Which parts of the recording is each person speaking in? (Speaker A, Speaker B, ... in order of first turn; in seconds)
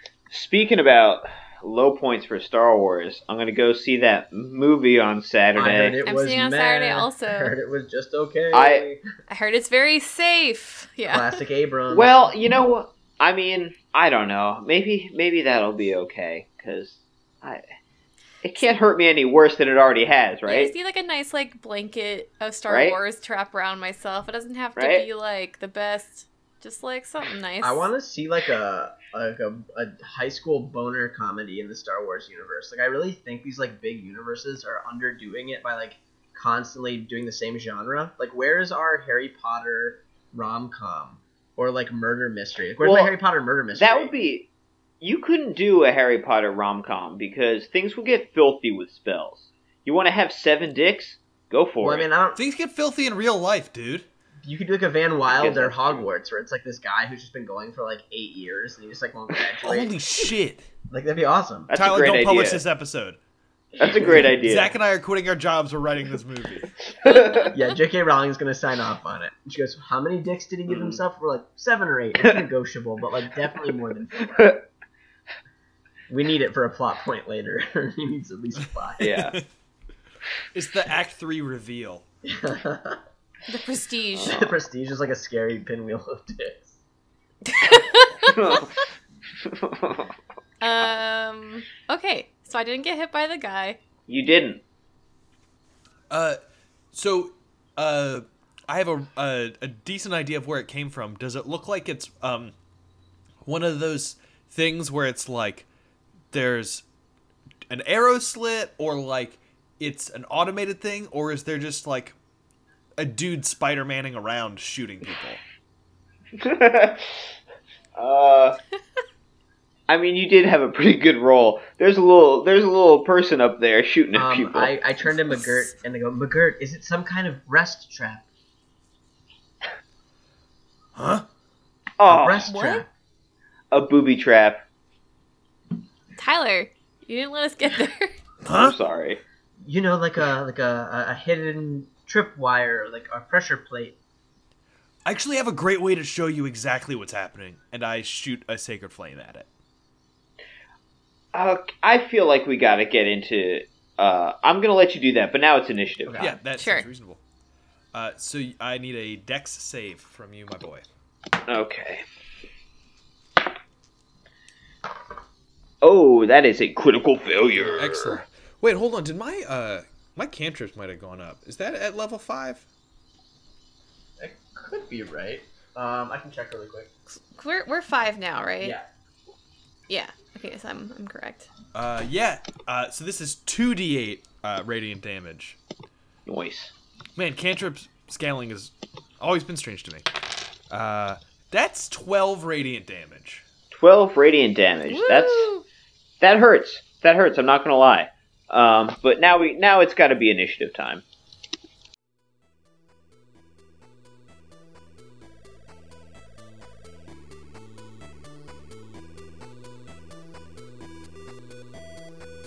Speaker A: 0.3-6.0, 8.5-8.9, 11.9-17.6, 18.4-20.7, 22.7-23.0, 24.8-25.0, 42.8-43.1, 43.7-44.5, 45.0-52.1, 55.3-56.0, 61.7-62.6, 63.8-64.7, 67.0-67.5, 70.7-71.0, 74.3-74.6, 79.0-79.4, 87.7-88.8, 89.4-90.1, 94.1-94.6, 116.4-117.3, 117.9-118.6, 119.9-124.7, 132.0-132.5, 133.7-134.6, 138.5-139.2, 151.3-156.3, 161.4-162.0, 165.8-168.2, 186.2-186.7, 193.7-195.5, 196.2-201.0
Speaker B: 5.5-9.0, 11.1-12.3, 27.6-44.1, 51.8-52.4, 54.4-59.9, 60.9-61.7, 63.9-64.1, 67.5-74.5, 76.1-79.2, 82.2-83.0, 84.2-86.8, 124.1-128.2, 132.0-132.9, 139.6-144.0, 156.1-156.3, 174.2-176.9, 178.6-178.9
Speaker C: 6.0-7.5, 9.3-11.3, 20.5-27.9, 67.0-67.5, 83.5-84.5, 87.5-88.3, 90.6-93.8, 125.1-125.7, 132.4-132.8, 136.2-138.2, 156.6-156.8, 177.1-178.8, 179.9-181.5, 194.9-195.6
Speaker D: 52.3-54.0, 59.6-60.6, 61.7-63.2, 64.0-66.7, 80.5-82.0, 96.1-96.4, 96.9-102.5, 103.4-105.7, 106.3-106.8, 107.7-112.1, 113.0-115.4, 130.9-131.2, 138.4-138.8, 145.0-149.5, 156.2-157.2, 157.9-160.8, 167.8-172.6, 181.7-185.6, 187.2-190.1, 190.7-193.4